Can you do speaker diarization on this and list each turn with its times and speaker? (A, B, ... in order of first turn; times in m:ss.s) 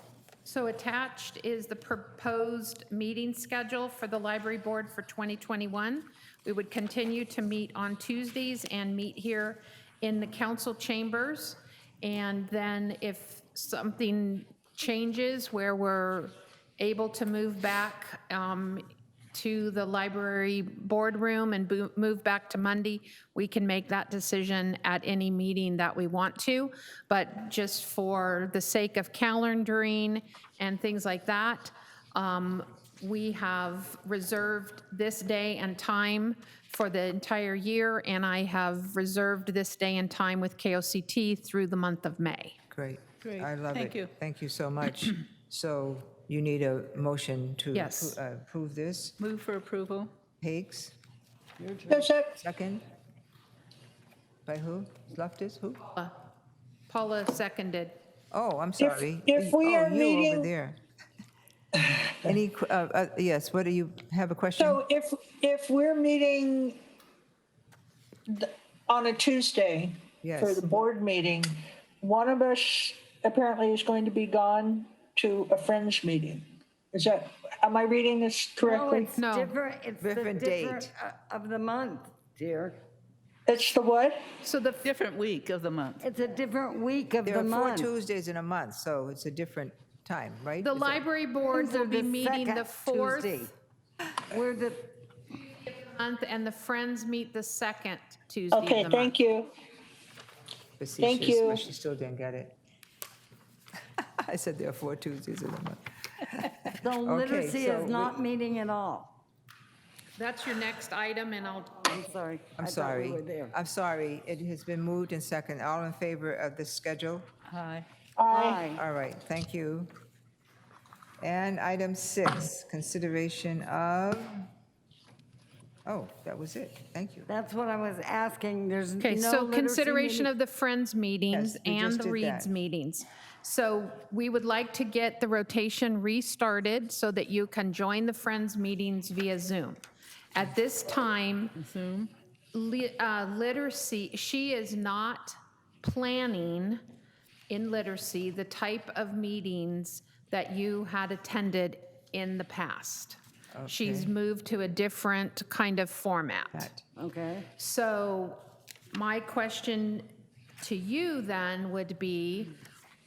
0:00.4-0:42.6 A
0:42.7-0:49.2 B
0:43.2-0:44.1 C
0:47.7-0:48.2 A
0:49.2-0:50.1 C
0:50.4-0:50.9 B
0:51.6-0:52.1 D
0:51.9-0:52.4 E
0:52.4-0:52.8 B
0:54.4-0:55.8 B
0:56.9-0:58.0 A
0:58.3-1:00.8 B
0:58.8-1:00.5 E
1:02.2-1:04.8 B
1:04.6-1:06.8 E
1:08.3-1:19.2 E
1:10.2-1:10.6 B
1:18.6-1:22.8 D
1:19.2-1:19.5 A
1:20.0-1:20.9 B
1:23.5-1:24.2 E
1:24.4-1:24.8 A
1:24.8-1:26.0 C
1:26.0-1:27.9 D
1:27.2-1:31.0 B
1:30.6-1:33.4 A
1:31.5-1:33.5 D
1:34.3-1:35.0 D
1:35.6-1:39.1 A
1:38.5-1:39.5 E
1:40.8-1:42.6 B
1:41.0-1:41.6 E
1:44.0-1:48.2 B
1:46.8-1:49.2 D
1:50.2-1:51.9 A
1:51.7-1:53.5 D
1:52.6-1:57.3 B
1:57.5-1:57.8 C
1:58.2-1:58.6 E
1:58.3-1:58.8 D
1:58.7-1:59.9 B
2:01.2-2:04.4 B
2:05.8-2:07.3 B
2:07.3-2:10.3 D
2:09.0-2:19.8 A
2:11.3-2:12.5 B
2:20.3-2:21.5 A
2:21.6-2:22.1 C
2:22.5-2:26.8 A
2:27.5-2:36.7 A
2:33.5-2:34.1 B
2:36.5-2:36.8 B
2:36.9-2:37.5 D
2:37.6-2:40.1 A
2:40.6-2:42.6 A